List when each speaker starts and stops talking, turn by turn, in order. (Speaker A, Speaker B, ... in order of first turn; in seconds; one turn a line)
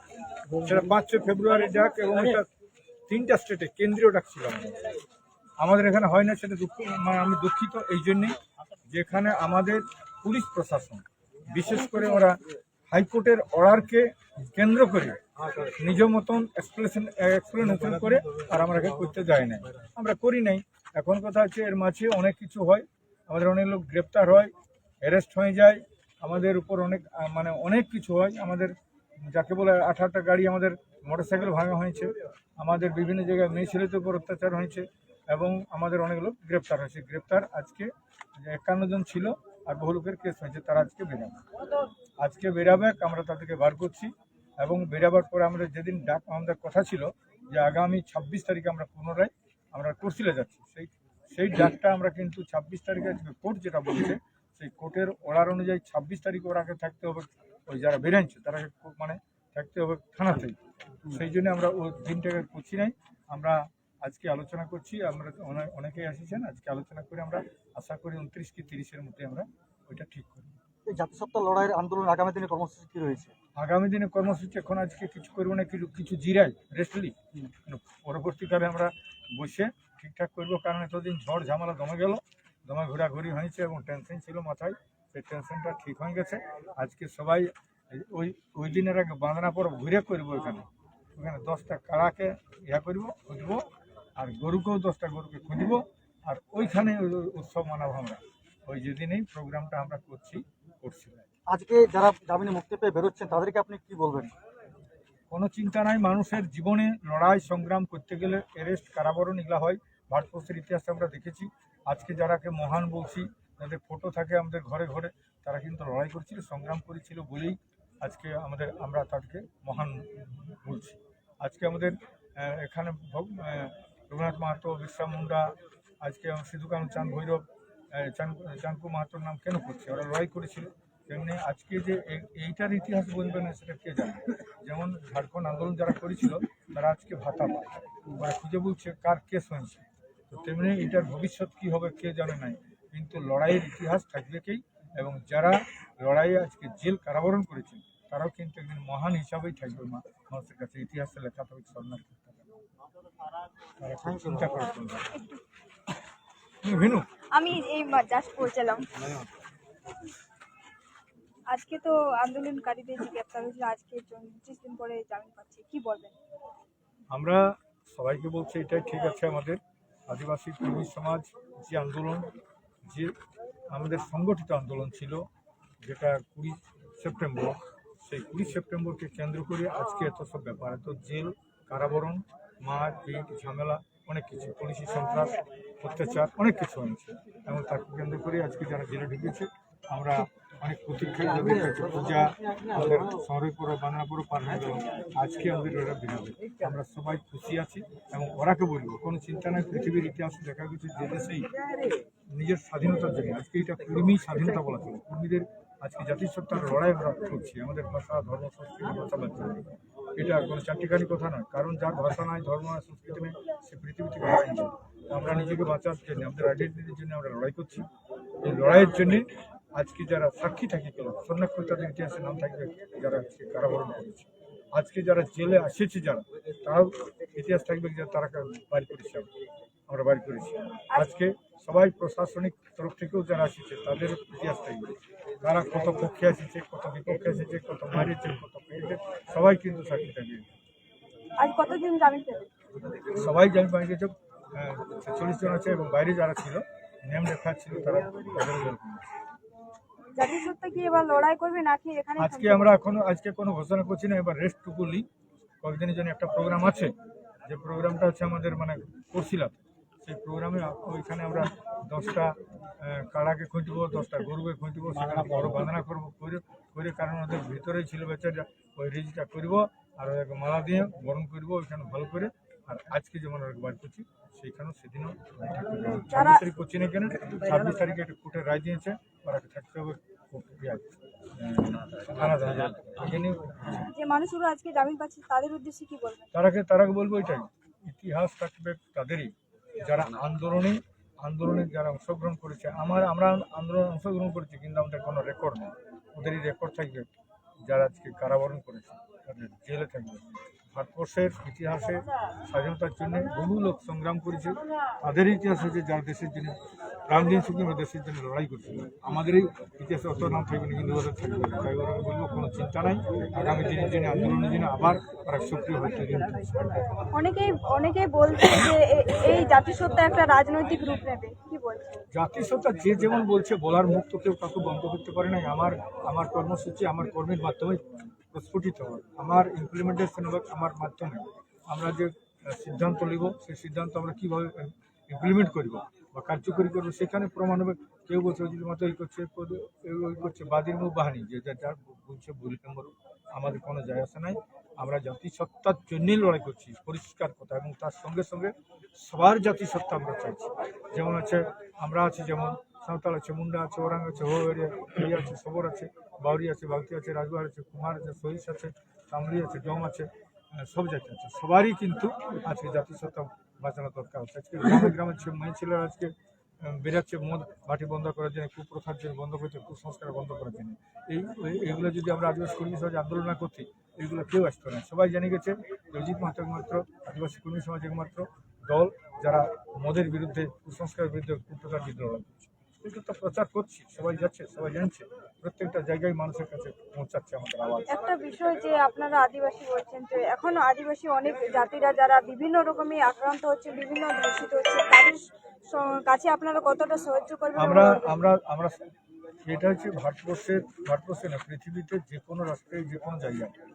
Speaker A: 0.5-2.5
Speaker A: 3.1-4.8
Speaker A: 5.6-41.4
Speaker A: 42.2-70.5
Speaker B: 70.8-73.3
Speaker A: 73.5-101.3
Speaker B: 101.5-104.3
Speaker A: 105.3-152.5
Speaker A: 153.8-155.2
Speaker A: 156.6-157.1
Speaker C: 157.3-158.9
Speaker C: 161.5-166.2
Speaker A: 167.1-172.3
Speaker A: 172.8-173.1
Speaker A: 173.7-175.3
Speaker A: 175.8-201.5
Speaker A: 202.3-217.9
Speaker A: 218.4-229.3
Speaker A: 229.9-240.5
Speaker C: 241.4-242.5
Speaker A: 243.1-249.1
Speaker C: 250.1-252.8
Speaker A: 252.2-255.1
Speaker A: 255.6-256.9
Speaker A: 257.4-283.9
Speaker C: 276.1-276.4
Speaker C: 283.9-286.3
Speaker A: 286.3-297.1
Speaker A: 297.6-316.8
Speaker C: 317.1-322.0
Speaker A: 322.1-387.9
Speaker C: 387.9-398.2
Speaker A: 397.5-398.9
Speaker A: 399.4-403.5